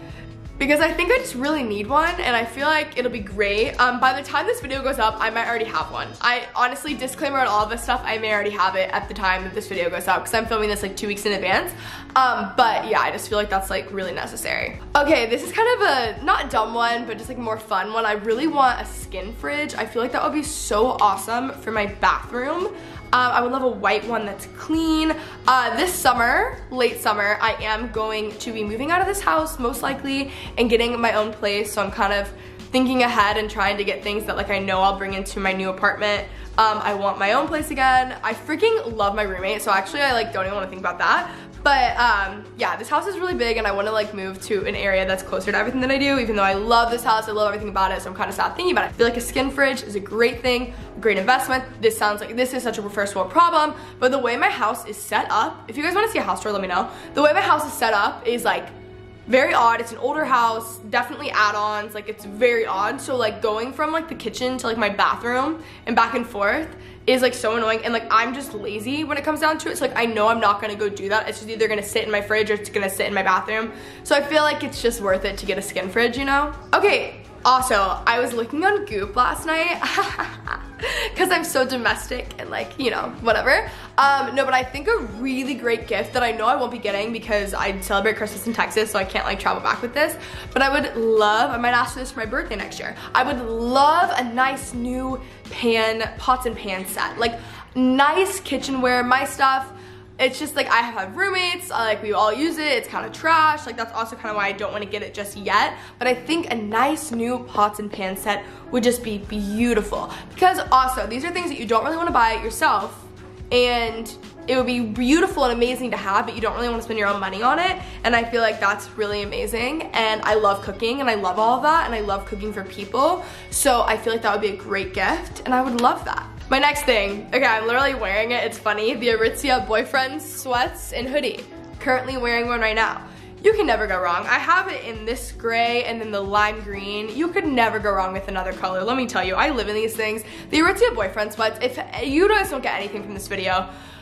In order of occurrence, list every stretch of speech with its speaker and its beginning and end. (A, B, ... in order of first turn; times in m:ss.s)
0:00.6-0:58.7 A
0:59.3-2:23.7 A